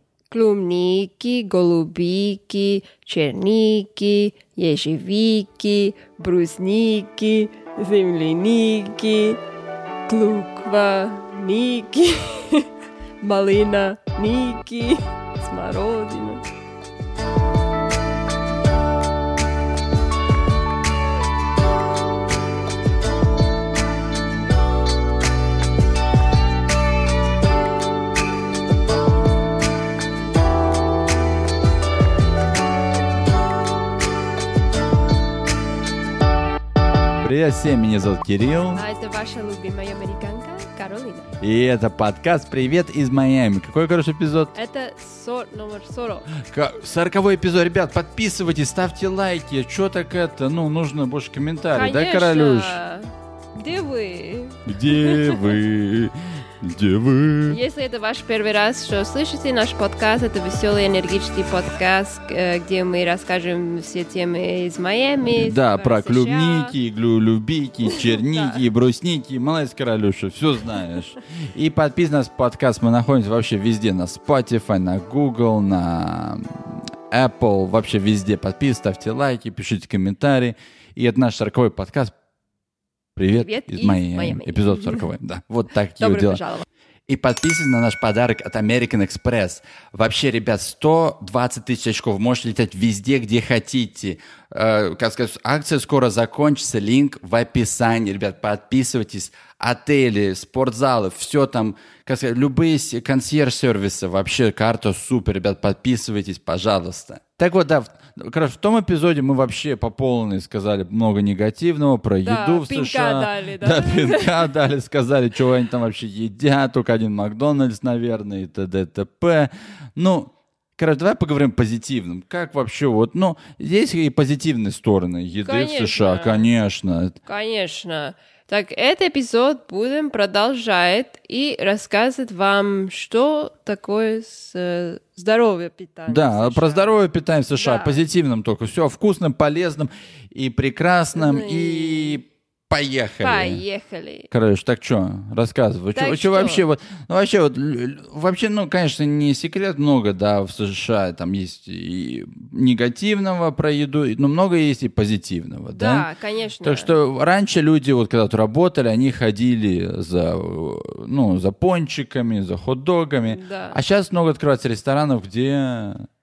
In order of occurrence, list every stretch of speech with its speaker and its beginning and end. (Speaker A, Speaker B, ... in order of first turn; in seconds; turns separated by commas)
Speaker A: 0.3-9.4, Speaker A: 10.1-12.7, Speaker A: 13.2-16.4, Speaker B: 37.2-38.8, Speaker A: 38.7-41.3, Speaker B: 41.4-44.5, Speaker A: 44.5-46.3, Speaker B: 46.4-52.8, Speaker A: 51.7-55.6, Speaker B: 54.6-57.6, Speaker A: 57.5-66.8, Speaker B: 65.2-82.1, Speaker A: 67.8-68.6, Speaker B: 83.2-86.4, Speaker A: 83.4-85.1, Speaker A: 86.0-86.7, Speaker B: 87.1-127.2, Speaker A: 112.2-114.5, Speaker A: 125.4-126.5, Speaker A: 127.2-137.0, Speaker B: 136.1-143.6, Speaker A: 137.5-138.0, Speaker A: 141.1-142.2, Speaker A: 143.2-144.3, Speaker B: 144.3-156.1, Speaker A: 145.9-146.6, Speaker A: 155.7-156.9, Speaker B: 156.6-166.1, Speaker A: 163.2-163.8